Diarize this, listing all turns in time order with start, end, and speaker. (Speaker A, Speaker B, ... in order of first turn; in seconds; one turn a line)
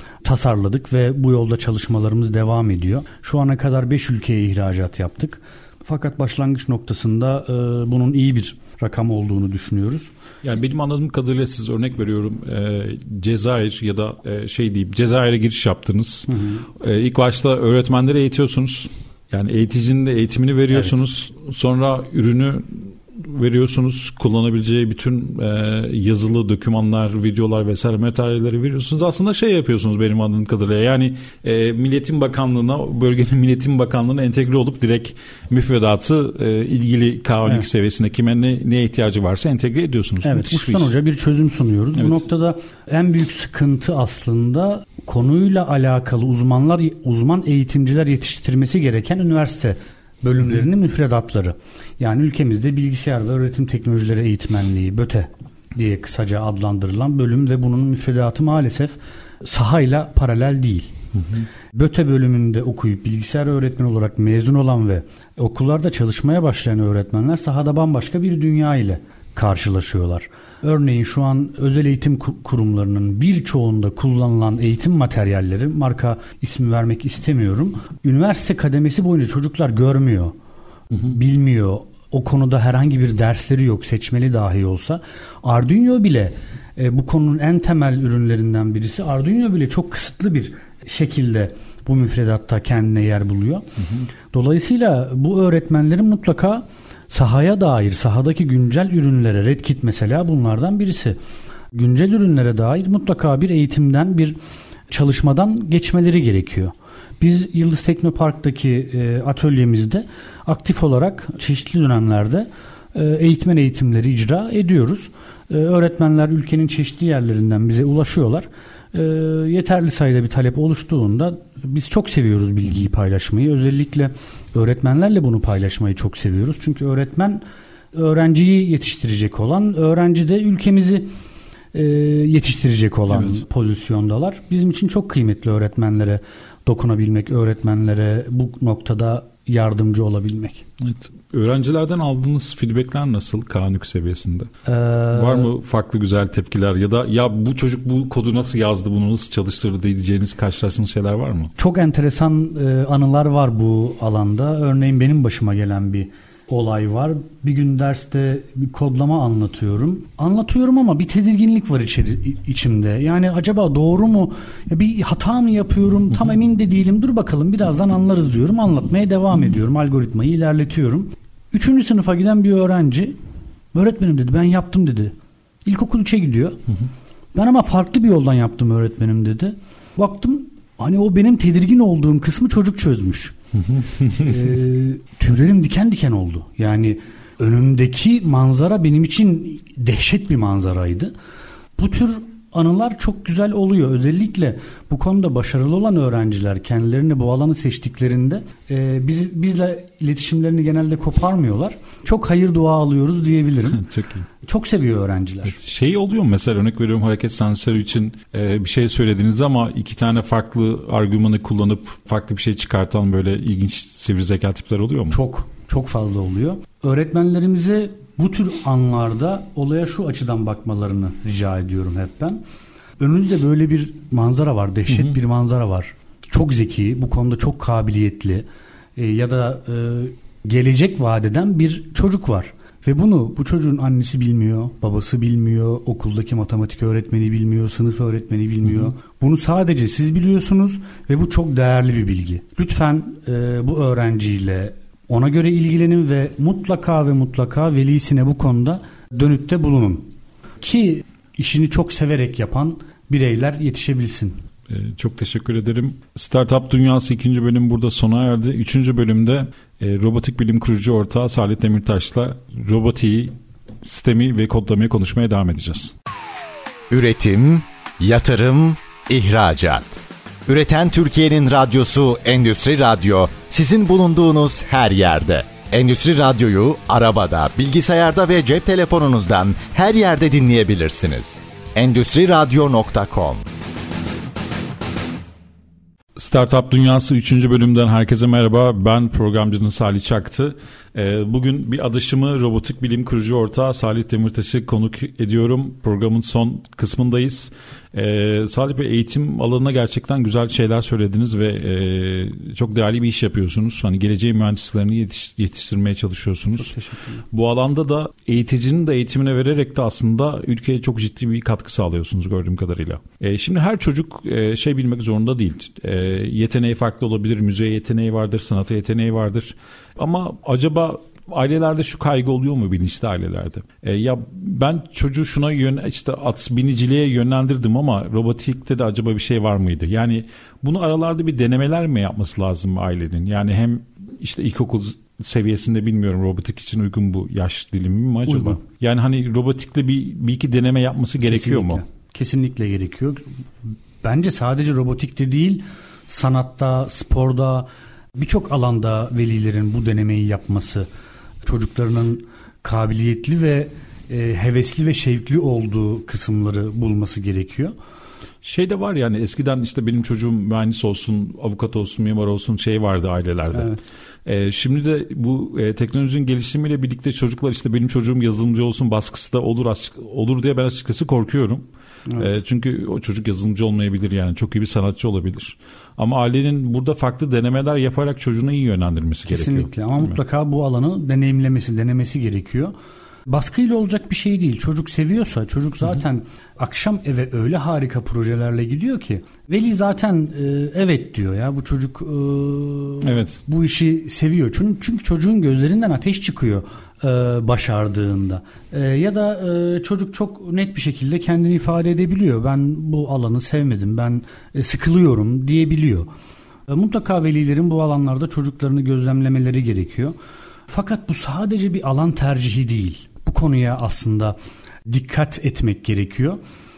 Speaker A: 0.2-10.1
Speaker B: 10.4-40.9
Speaker A: 16.3-16.6
Speaker A: 40.2-60.9
Speaker B: 42.0-42.2
Speaker A: 61.7-80.3
Speaker A: 81.0-93.7
Speaker A: 94.3-101.2
Speaker A: 101.7-104.4
Speaker A: 104.9-131.1
Speaker A: 131.7-140.7
Speaker B: 133.1-133.4
Speaker B: 140.8-144.5
Speaker A: 144.7-145.5
Speaker B: 145.1-151.5
Speaker A: 151.6-173.2
Speaker A: 173.7-175.1
Speaker A: 175.7-176.6
Speaker A: 177.3-183.3
Speaker A: 184.0-191.1
Speaker A: 191.8-203.9
Speaker B: 203.8-204.2
Speaker A: 204.4-205.6
Speaker B: 205.5-215.2
Speaker A: 215.1-222.4
Speaker A: 223.0-250.1
Speaker A: 250.6-254.4
Speaker B: 254.7-265.9
Speaker C: 266.9-283.4
Speaker B: 286.2-306.7
Speaker A: 306.6-307.2
Speaker B: 307.3-341.8
Speaker A: 338.3-338.6
Speaker A: 341.2-343.3
Speaker A: 344.0-350.9
Speaker A: 351.4-357.8
Speaker B: 358.4-363.7
Speaker A: 363.5-363.8
Speaker B: 364.3-371.6
Speaker B: 372.2-380.2
Speaker A: 379.3-382.7
Speaker A: 383.3-406.1
Speaker B: 393.0-393.4
Speaker A: 406.7-410.2
Speaker A: 410.7-416.4